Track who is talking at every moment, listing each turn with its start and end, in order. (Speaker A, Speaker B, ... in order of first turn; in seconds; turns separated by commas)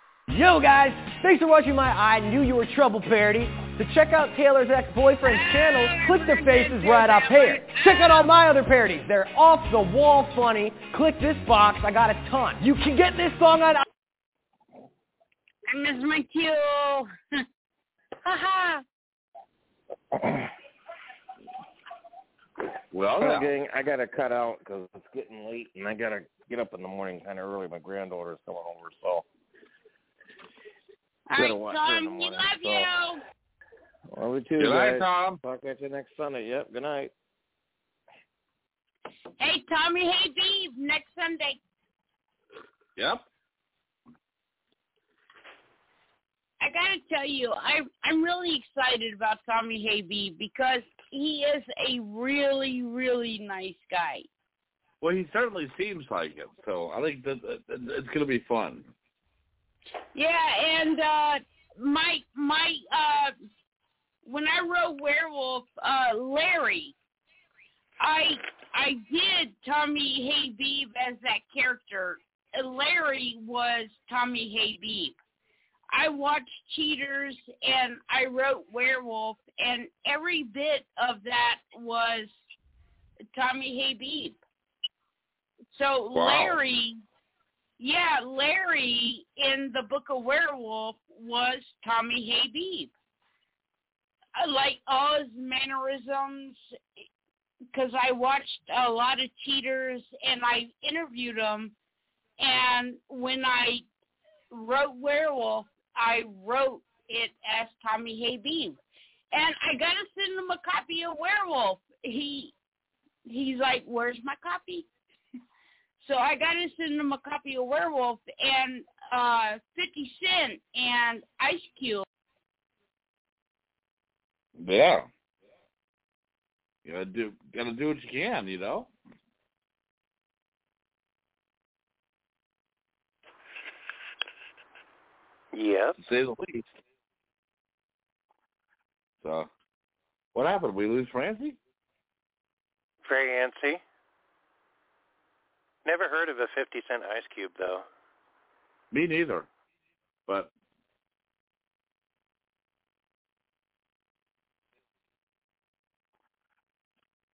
Speaker A: 0.3-13.8, Speaker B: 5.2-8.3, Speaker B: 15.7-17.4, Speaker B: 18.2-18.8, Speaker C: 22.9-23.5, Speaker D: 23.2-29.2, Speaker B: 31.3-33.2, Speaker D: 31.4-32.9, Speaker D: 34.1-37.1, Speaker C: 34.6-35.4, Speaker B: 39.4-41.6, Speaker C: 43.0-43.2, Speaker B: 46.6-54.3, Speaker C: 55.0-58.9, Speaker B: 60.1-63.3, Speaker B: 64.2-67.0, Speaker B: 68.0-75.2, Speaker B: 75.9-82.3, Speaker B: 83.3-84.4, Speaker B: 85.7-87.0, Speaker C: 86.1-86.6, Speaker B: 87.8-92.9, Speaker B: 94.4-96.6, Speaker B: 97.7-101.7, Speaker B: 102.4-103.8, Speaker B: 104.5-108.8, Speaker B: 109.3-112.5, Speaker B: 113.3-114.9, Speaker B: 116.0-122.1, Speaker C: 124.6-125.1, Speaker C: 126.8-128.9, Speaker E: 135.5-135.9, Speaker C: 136.0-136.7, Speaker C: 139.2-139.5, Speaker C: 140.3-141.6, Speaker E: 143.1-143.8, Speaker E: 145.8-147.9, Speaker C: 148.9-149.5